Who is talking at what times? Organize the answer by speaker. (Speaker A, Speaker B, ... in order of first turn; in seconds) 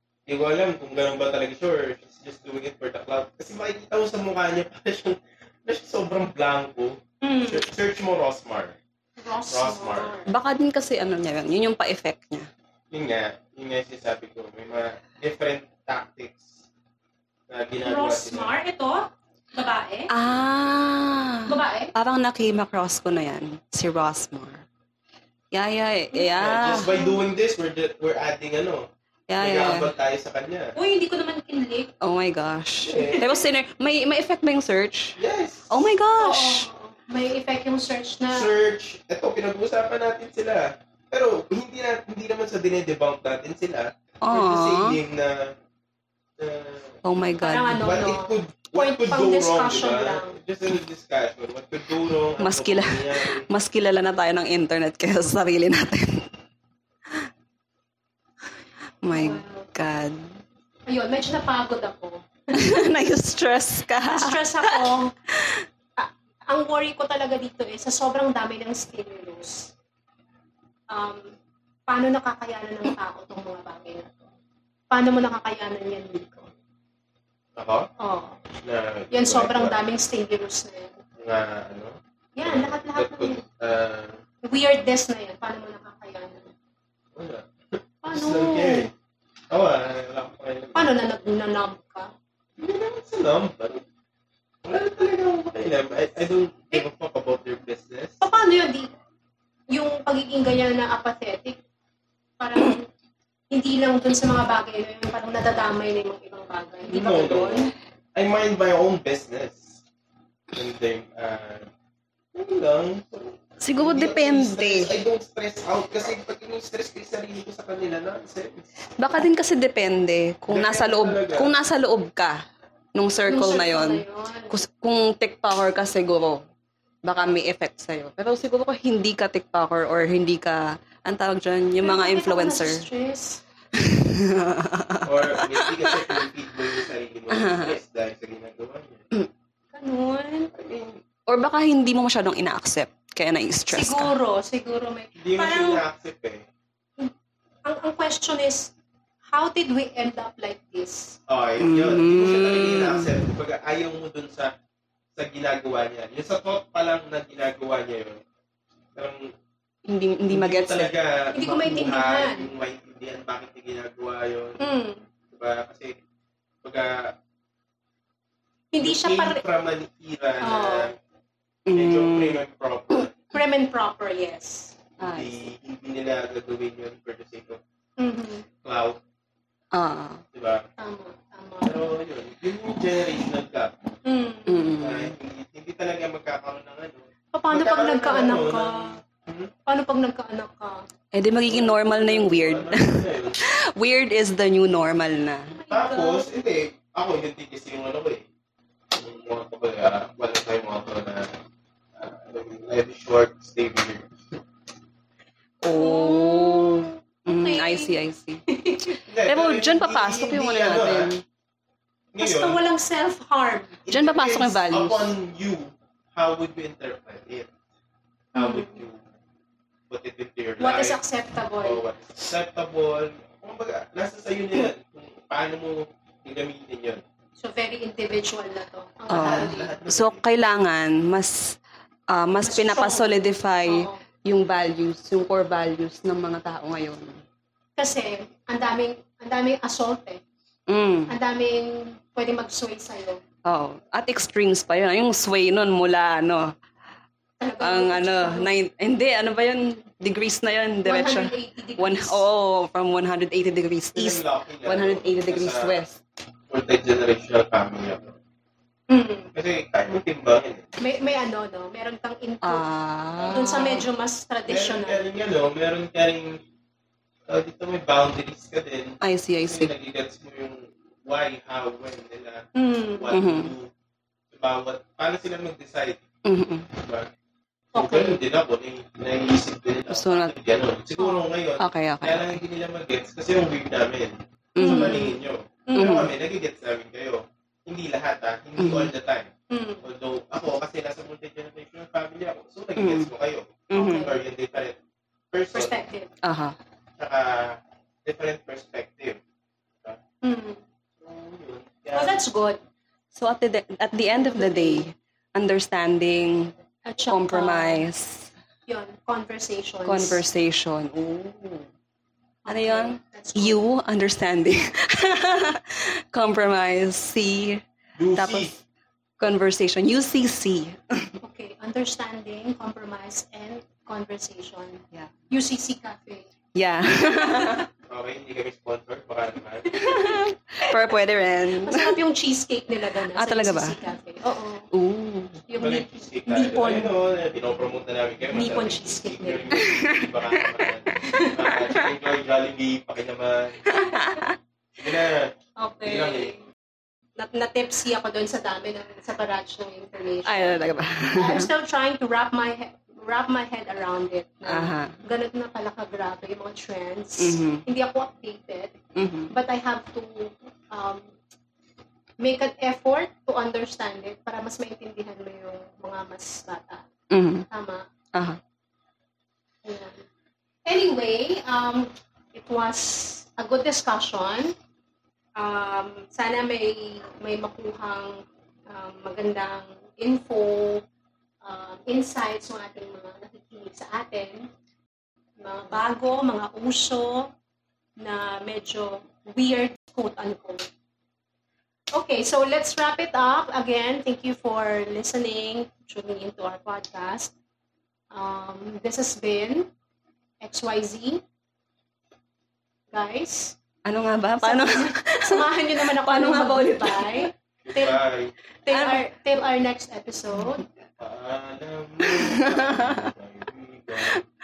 Speaker A: 0.3-8.8, 9.5-10.2, 12.9-16.6, 17.5-18.5, 26.4-28.9, 29.4-30.8, 32.8-33.4, 35.2-35.9, 38.3-45.6, 46.4-47.0, 47.8-53.5, 77.6-77.9, 78.6-79.8, 81.2-84.2, 87.2-88.9, 89.5-91.0, 92.6-93.8, 94.6-98.2, 106.9-109.8, 110.5-111.7, 112.3-118.7, 120.5-121.5, 135.1-139.0, 140.5-141.0, 145.2-146.5, 151.3-154.5, 155.2-158.2, 159.0-159.3, 160.3-164.7, 165.3-166.0, 166.6-167.1, 168.8-170.9, 171.7-173.2, 175.0-177.6, 178.6-179.0, 180.3-180.7, 181.6-183.7, 184.8-189.5, 191.4-193.4, 195.7-198.3, 198.9-201.4, 202.0-204.1, 209.1-211.1, 212.1-212.6, 213.9-217.5, 218.3-219.0, 219.9-221.0, 221.6-227.0, 229.1-230.2, 253.9-255.8, 256.5-258.2, 259.3-260.7, 264.5-266.4, 267.3-273.7, 274.3-276.0, 276.8-277.1, 277.8-289.3, 289.8-294.8, 295.3-295.8, 297.0-299.2, 301.0-302.2, 318.0-318.5, 327.9-329.7, 335.6-343.6, 344.8-346.3, 407.6-408.3, 411.0-414.2
Speaker B: 7.2-7.7, 9.2-10.3, 17.8-20.1, 21.5-21.9, 26.1-27.2, 30.8-31.9, 33.0-33.4, 36.2-38.5, 47.4-50.4, 59.1-59.7, 60.9-62.8, 64.1-65.1, 66.0-69.7, 70.9-71.3, 71.9-74.3, 74.9-76.5, 78.0-78.4, 79.1-81.0, 82.4-83.4, 84.5-86.5, 88.0-88.9, 90.8-92.1, 98.2-98.9, 99.7-101.6, 102.4-102.9, 103.5-107.5, 123.3-124.5, 131.8-133.4, 139.7-140.5, 143.7-145.8, 147.7-148.7, 149.3-151.2, 161.3-162.5, 164.6-165.0, 168.7-169.4, 170.4-170.9, 173.3-174.8, 178.0-178.5, 180.8-181.8, 184.1-184.8, 187.3-189.0, 189.7-190.8, 195.5-196.3, 205.7-207.9, 208.5-209.0, 212.2-213.8, 218.3-218.8, 220.6-221.8, 227.4-229.8, 232.4-234.0, 237.8-240.2, 241.1-243.2, 247.4-248.5, 250.8-252.2, 258.9-259.3, 260.8-262.6, 263.2-265.0, 272.6-273.1, 277.7-278.2, 281.0-281.3, 284.6-285.1, 285.7-286.1, 289.5-289.9, 293.8-294.1, 295.5-296.1, 300.2-300.6, 301.9-302.6, 304.1-304.9, 306.9-307.9, 308.7-310.2, 312.4-313.6, 321.2-326.3, 327.0-327.6, 329.7-330.2, 331.6-334.7, 335.5-336.9, 338.3-339.4, 343.7-344.2, 345.6-346.4, 347.2-350.6, 351.1-358.8, 359.3-361.1, 362.2-366.9, 367.5-367.9, 369.6-370.1, 370.7-374.6, 375.4-380.8, 381.4-384.5, 385.4-387.3, 388.0-390.7, 391.9-397.3, 398.1-399.7, 400.4-401.2, 402.9-403.6, 404.4-408.0, 408.7-410.6
Speaker C: 10.3-12.5, 20.1-24.6, 25.5-26.9, 29.3-29.9, 32.0-35.2, 35.7-36.7, 44.2-45.0, 47.0-47.9, 52.4-56.3, 59.0-60.2, 62.5-65.6, 106.9-107.7, 113.6-115.0, 119.0-122.4, 123.0-126.4, 127.1-132.9, 133.8-136.2, 137.3-137.8, 141.3-144.2, 151.6-153.1, 159.9-160.9, 171.7-172.4, 175.0-175.5, 179.7-180.2, 184.5-185.1, 191.1-195.5, 205.6-208.4, 209.3-211.2, 213.9-215.1, 229.1-231.6, 232.1-237.2, 240.7-241.1, 243.5-246.5, 247.6-256.0, 262.4-263.9, 269.0-269.7, 273.1-273.5, 276.3-276.7, 279.9-280.3, 281.6-282.4, 284.6-285.1, 285.8-286.1, 288.6-288.9, 292.8-293.1, 293.7-294.1, 296.2-296.6, 303.1-306.5, 307.1-308.3, 309.9-311.7, 312.5-317.6, 318.1-318.6, 319.2-321.1, 326.6-327.6, 329.7-332.0, 333.1-333.8, 334.7-335.4, 339.6-341.9, 343.7-344.4, 350.2-351.5, 354.5-355.0, 357.2-357.6, 358.9-359.3, 367.1-367.5, 403.9-407.3, 408.7-409.0, 412.1-413.0